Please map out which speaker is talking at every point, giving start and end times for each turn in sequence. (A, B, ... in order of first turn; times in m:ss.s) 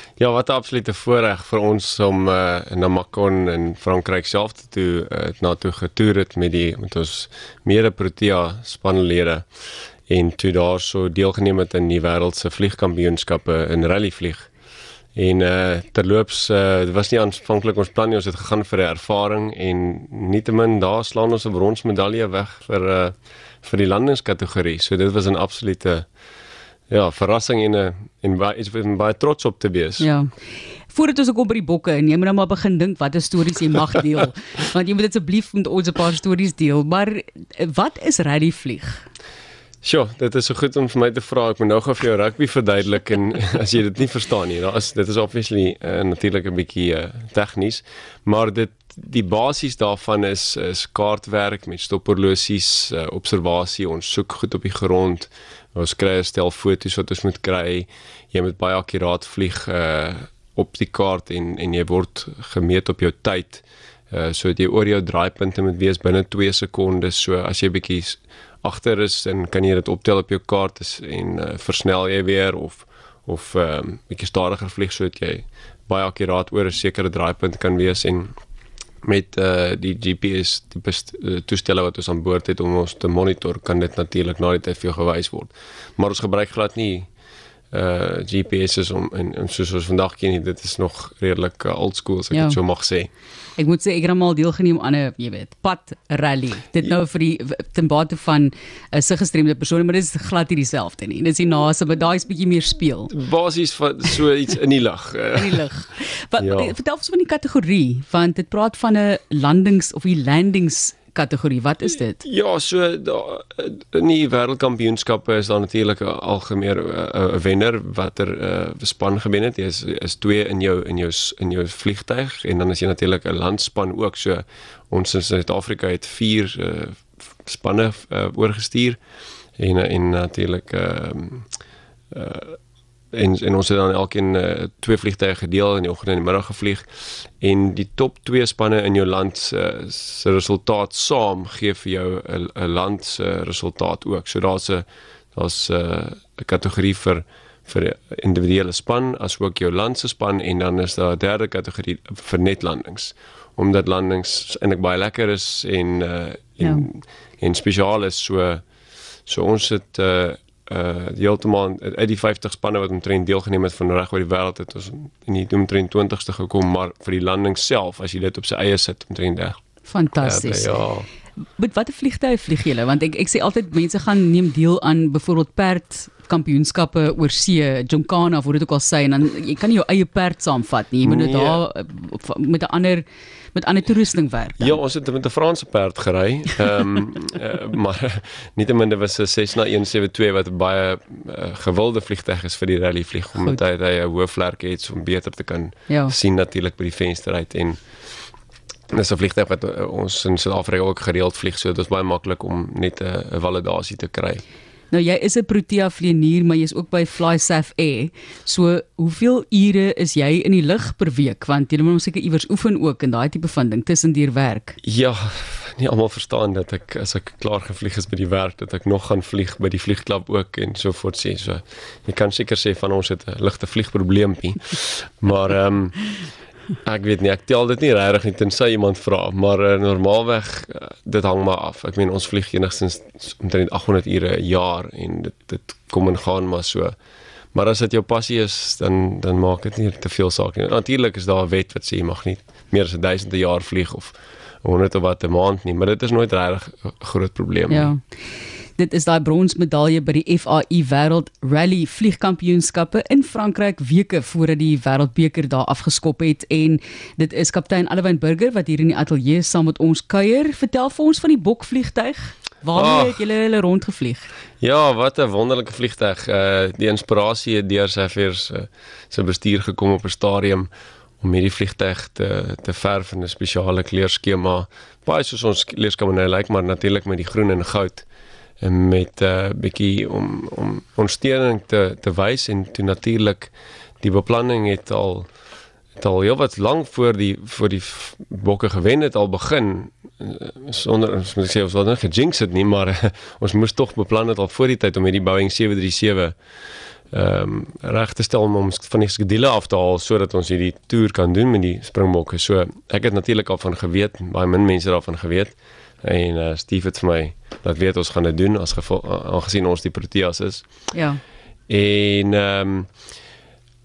0:00.2-0:09.4 A
0:10.1-0:14.5 A
0:15.1-0:26.1 A
0:26.9-0:30.1 A
0:30.0-0:30.3 B
0:30.9-0:39.0 B
0:39.8-1:18.3 A
1:19.0-1:27.1 A
1:27.7-1:33.1 A
1:32.3-1:32.6 B
1:33.6-1:43.1 B
1:43.1-1:45.6 A
1:45.4-1:52.2 B
1:46.4-1:46.7 A
1:52.2-2:09.0 A
2:09.6-2:11.5 A
2:12.1-2:12.6 A
2:13.1-2:16.8 A
2:17.4-2:38.6 A
2:39.2-2:49.6 A
2:49.8-2:50.8 B
2:50.2-2:51.1 A
2:51.4-3:04.8 B
3:01.0-3:01.6 A
3:04.6-3:17.8 A
3:15.9-3:16.1 B
3:18.9-3:24.4 A
3:24.9-3:34.8 B
3:34.8-3:46.0 A
3:46.8-3:56.9 A
3:57.5-4:07.9 A
4:07.7-4:08.0 B
4:08.8-4:24.3 B
4:22.7-4:23.2 A
4:24.6-4:30.7 A
4:31.2-4:38.1 A
4:38.6-4:45.3 A
4:46.0-4:56.3 A
4:57.1-5:10.6 A
5:10.9-5:11.2 B
5:11.7-5:12.9 A